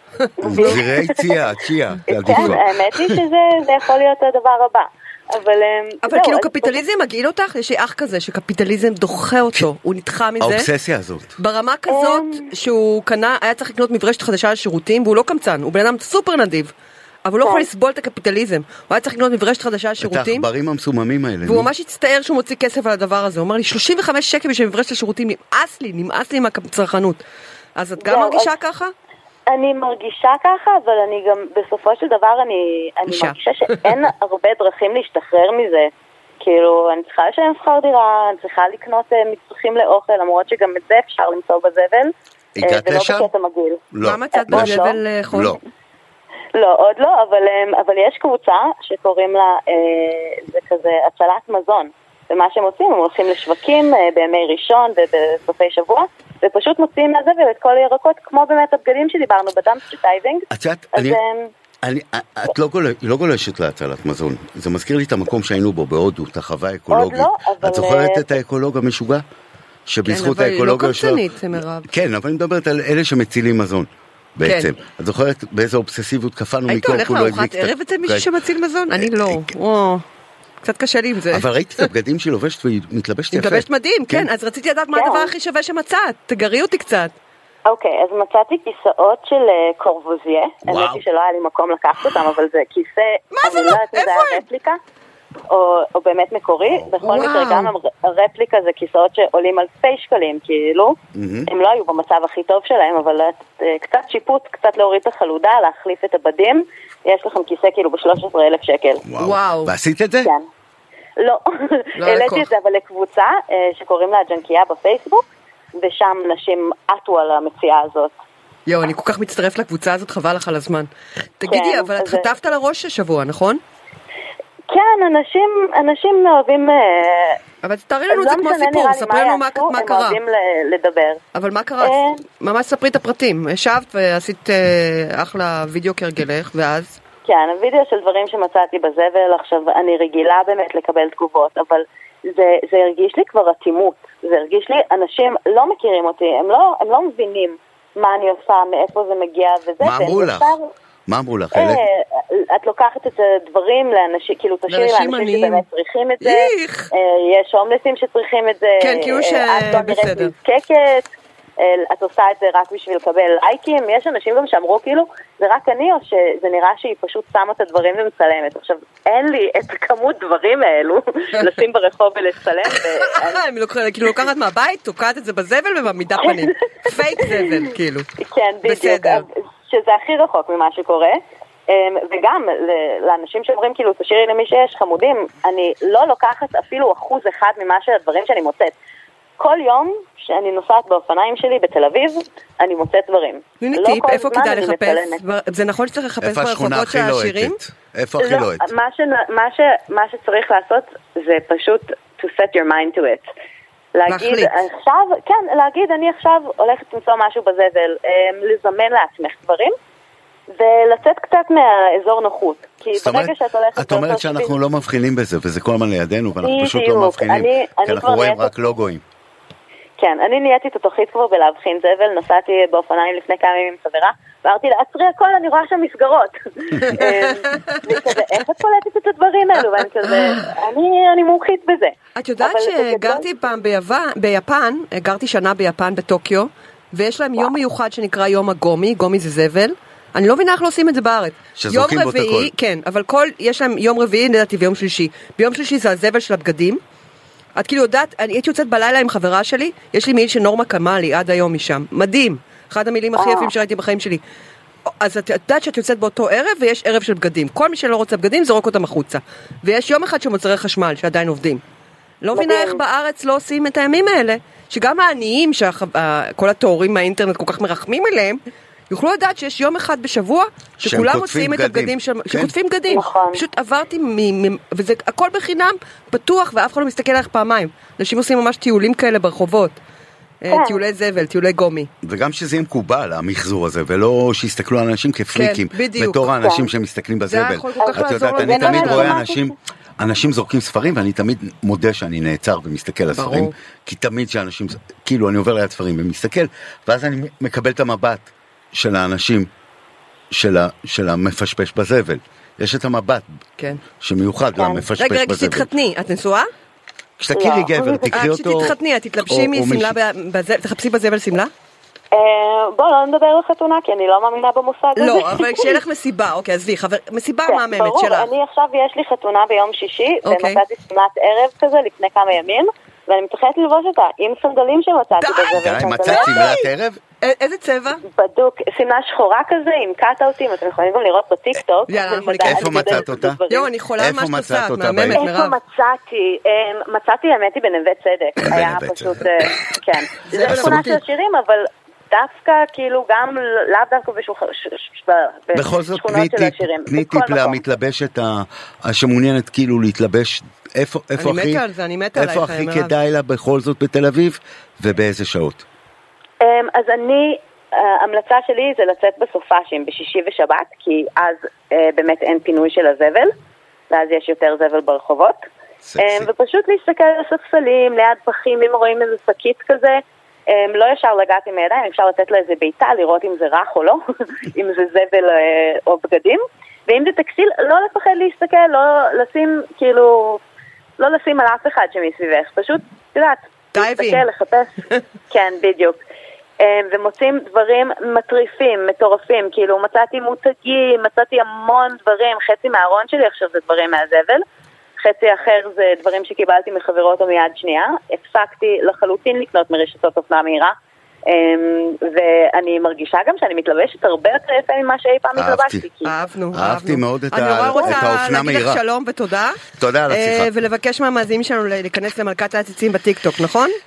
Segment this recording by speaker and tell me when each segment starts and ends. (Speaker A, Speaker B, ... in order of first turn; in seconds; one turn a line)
Speaker A: 0.4-1.3
Speaker B: 0.4-0.8
Speaker C: 0.4-3.2
Speaker A: 2.1-6.8
Speaker B: 2.3-2.5
Speaker B: 6.0-10.7
Speaker C: 10.4-11.4
Speaker B: 11.4-16.7
Speaker A: 11.9-12.5
Speaker B: 17.2-20.4
Speaker C: 20.0-21.7
Speaker B: 21.4-27.2
Speaker B: 27.8-28.9
Speaker A: 28.0-28.5
Speaker A: 29.5-45.0
Speaker B: 33.1-33.3
Speaker C: 42.5-43.3
Speaker C: 43.9-44.8
Speaker B: 44.0-45.6
Speaker C: 45.3-45.6
Speaker A: 46.5-61.5
Speaker C: 60.5-61.2
Speaker C: 61.8-69.2
Speaker A: 66.9-68.2
Speaker C: 69.9-71.2
Speaker B: 70.0-71.9
Speaker C: 71.8-78.3
Speaker B: 74.4-74.7
Speaker B: 76.7-80.0
Speaker C: 79.0-79.5
Speaker B: 80.6-81.9
Speaker C: 81.3-84.3
Speaker B: 83.3-87.1
Speaker A: 84.9-85.3
Speaker A: 87.7-94.8
Speaker C: 90.7-91.0
Speaker B: 93.3-94.4
Speaker A: 95.5-101.0
Speaker B: 97.0-97.7
Speaker C: 101.1-101.5
Speaker A: 101.5-109.0
Speaker C: 109.1-110.3
Speaker B: 109.2-109.7
Speaker A: 110.2-110.5
Speaker A: 111.2-115.2
Speaker B: 112.0-112.5
Speaker A: 115.8-118.1
Speaker B: 118.7-123.6
Speaker A: 121.4-122.3
Speaker A: 124.7-127.4
Speaker B: 127.6-130.2
Speaker A: 128.1-131.2
Speaker B: 131.3-137.0
Speaker A: 131.8-132.2
Speaker A: 137.2-150.7
Speaker C: 149.8-150.6
Speaker C: 151.1-151.8
Speaker A: 151.5-161.1
Speaker B: 154.7-155.6
Speaker B: 156.2-156.9
Speaker B: 158.8-160.3
Speaker A: 161.6-173.4
Speaker B: 172.7-178.1
Speaker A: 176.2-176.9
Speaker A: 178.2-188.7
Speaker B: 178.6-179.2
Speaker A: 189.4-195.2
Speaker B: 193.6-197.6
Speaker C: 196.2-198.7
Speaker A: 198.2-203.3
Speaker A: 203.9-209.7
Speaker B: 204.1-204.6
Speaker A: 210.5-214.6
Speaker C: 212.9-219.0
Speaker A: 216.4-218.7
Speaker A: 220.0-233.3
Speaker B: 226.9-227.8
Speaker B: 230.0-230.5
Speaker B: 232.1-246.8
Speaker C: 241.6-242.5
Speaker B: 247.6-254.2
Speaker A: 253.2-253.5
Speaker B: 255.0-261.6
Speaker B: 262.2-279.8
Speaker A: 262.3-262.8
Speaker C: 270.8-272.5
Speaker A: 272.9-273.4
Speaker B: 280.4-281.9
Speaker A: 280.5-280.8
Speaker C: 282.0-299.5
Speaker B: 285.3-286.3
Speaker A: 286.4-286.7
Speaker B: 287.3-289.2
Speaker A: 287.8-289.4
Speaker B: 293.1-293.5
Speaker C: 300.3-303.3
Speaker C: 304.0-305.7
Speaker A: 304.5-304.9
Speaker B: 305.0-306.5
Speaker C: 307.2-309.9
Speaker A: 307.3-308.2
Speaker B: 308.1-311.5
Speaker A: 312.1-315.8
Speaker B: 314.9-318.3
Speaker A: 317.4-326.5
Speaker B: 320.2-320.6
Speaker B: 325.2-326.7
Speaker C: 325.6-327.0
Speaker B: 327.2-328.0
Speaker A: 328.0-333.7
Speaker B: 331.9-335.6
Speaker C: 332.4-333.4
Speaker C: 334.0-335.2
Speaker A: 335.2-347.6
Speaker C: 338.4-339.3
Speaker B: 340.3-341.0
Speaker C: 340.3-340.9
Speaker C: 345.5-351.6
Speaker B: 351.2-352.9
Speaker C: 352.1-355.6
Speaker A: 356.4-363.3
Speaker A: 363.9-365.4
Speaker C: 365.8-366.3
Speaker A: 366.0-380.4
Speaker A: 381.0-386.0
Speaker B: 383.7-384.2
Speaker A: 386.6-394.4
Speaker A: 395.0-400.7
Speaker A: 401.3-406.1
Speaker C: 405.3-405.9
Speaker B: 406.0-413.8
Speaker C: 406.5-408.8
Speaker A: 407.7-408.1
Speaker C: 409.8-410.5